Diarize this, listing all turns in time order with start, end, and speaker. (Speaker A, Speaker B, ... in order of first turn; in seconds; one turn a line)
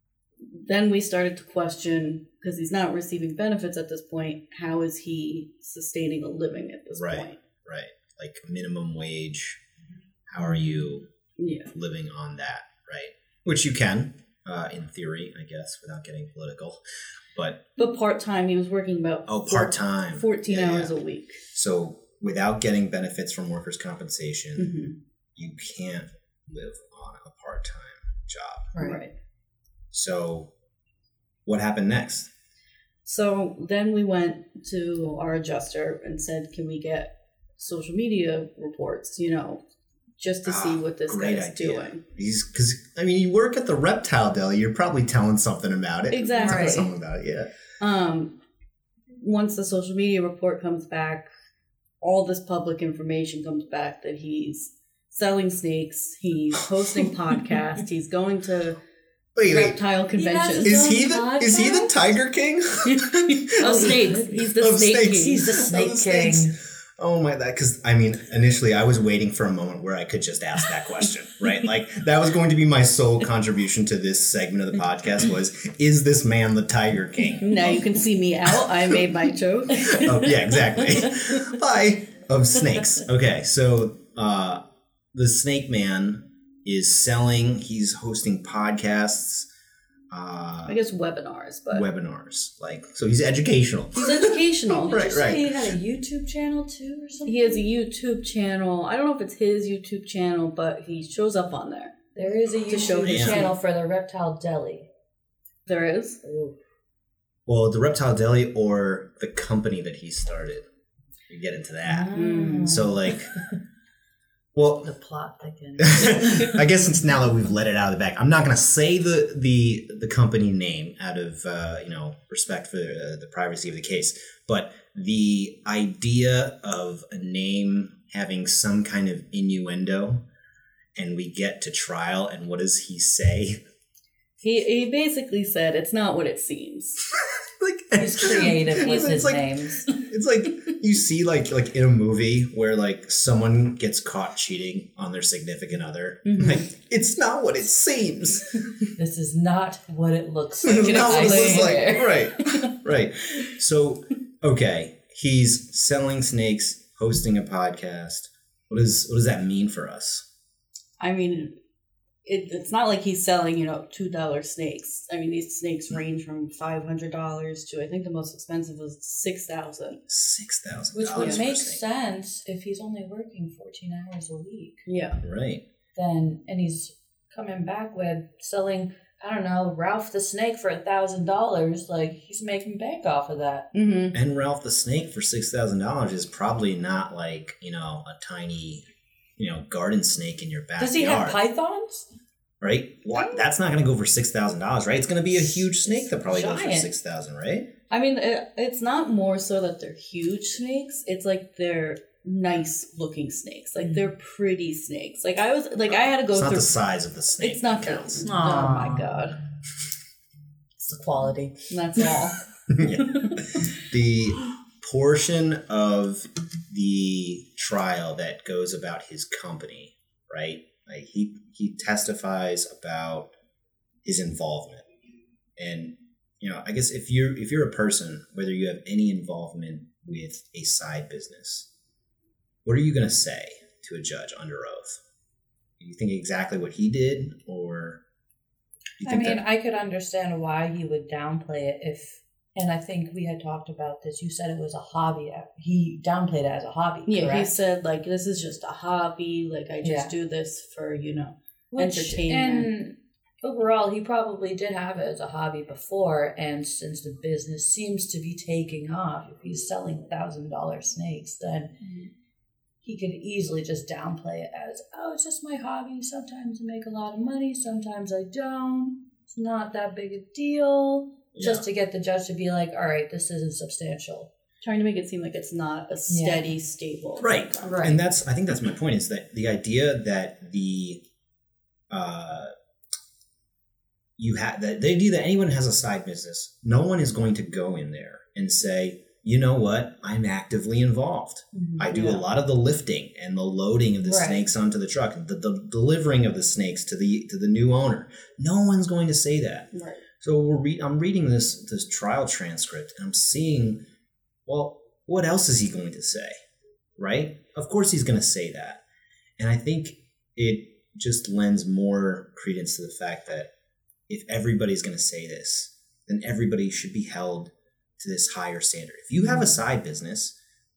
Speaker A: 0.4-7.4
Speaker B: 6.9-9.6
Speaker B: 10.3-11.1
Speaker A: 11.4-11.7
Speaker B: 11.7-16.8
Speaker B: 17.3-17.6
Speaker A: 17.8-21.4
Speaker B: 19.3-20.9
Speaker B: 21.5-24.7
Speaker A: 24.6-24.9
Speaker B: 25.4-29.0
Speaker C: 28.8-29.0
Speaker A: 28.8-29.1
Speaker B: 29.9-30.5
Speaker B: 31.4-32.3
Speaker A: 33.0-39.6
Speaker A: 40.2-42.0
Speaker B: 40.4-47.5
Speaker A: 46.1-46.9
Speaker C: 46.4-46.8
Speaker A: 47.8-48.4
Speaker A: 49.2-51.3
Speaker A: 52.0-58.8
Speaker B: 59.4-59.8
Speaker A: 59.5-60.8
Speaker C: 59.5-61.9
Speaker B: 60.6-77.9
Speaker A: 63.0-65.6
Speaker C: 63.6-64.5
Speaker C: 65.1-66.5
Speaker A: 77.4-81.3
Speaker B: 79.8-89.5
Speaker B: 90.1-90.8
Speaker A: 90.6-91.8
Speaker B: 91.7-95.5
Speaker A: 94.0-95.4
Speaker C: 94.7-97.7
Speaker A: 97.2-101.9
Speaker C: 102.1-104.9
Speaker A: 102.6-103.5
Speaker B: 103.0-103.5
Speaker A: 105.7-106.2
Speaker C: 106.2-106.5
Speaker B: 107.5-110.7
Speaker B: 111.3-112.1
Speaker C: 111.9-113.1
Speaker A: 112.1-112.9
Speaker B: 112.6-113.3
Speaker B: 114.5-114.9
Speaker C: 114.8-116.7
Speaker B: 115.8-130.2
Speaker B: 130.9-133.6
Speaker A: 134.4-137.1
Speaker B: 137.6-148.9
Speaker C: 138.0-139.8
Speaker A: 146.2-146.6
Speaker C: 149.0-152.7
Speaker B: 150.6-160.2
Speaker A: 150.8-151.8
Speaker A: 161.0-161.5
Speaker A: 162.2-170.0
Speaker B: 170.1-171.8
Speaker C: 170.9-174.9
Speaker A: 171.1-171.4
Speaker A: 174.9-175.2
Speaker B: 175.2-175.6
Speaker C: 175.9-183.7
Speaker A: 183.7-184.2
Speaker B: 184.1-188.8
Speaker B: 189.4-191.4
Speaker C: 190.8-192.1
Speaker B: 192.6-197.7
Speaker C: 195.6-196.9
Speaker A: 197.9-206.7
Speaker B: 206.2-208.2
Speaker A: 207.4-209.4
Speaker C: 208.2-209.1
Speaker C: 210.8-212.2
Speaker A: 211.7-212.4
Speaker B: 212.7-223.3
Speaker B: 224.0-224.8
Speaker B: 225.6-231.7
Speaker B: 232.6-235.0
Speaker B: 235.8-238.0
Speaker B: 239.0-239.4
Speaker C: 239.0-247.5
Speaker A: 247.1-252.7
Speaker C: 249.8-250.1
Speaker C: 251.7-261.8
Speaker A: 261.8-262.1
Speaker C: 262.8-274.3
Speaker B: 271.3-271.6
Speaker A: 274.6-277.8
Speaker C: 276.1-276.4
Speaker B: 277.2-281.0
Speaker C: 277.6-278.0
Speaker B: 281.9-282.5
Speaker B: 284.2-299.7
Speaker A: 291.5-292.2
Speaker C: 294.0-294.4
Speaker A: 299.7-300.0
Speaker B: 300.2-303.8
Speaker B: 304.4-306.4
Speaker B: 307.0-308.8
Speaker B: 309.4-313.5
Speaker B: 314.1-320.4
Speaker C: 319.2-319.5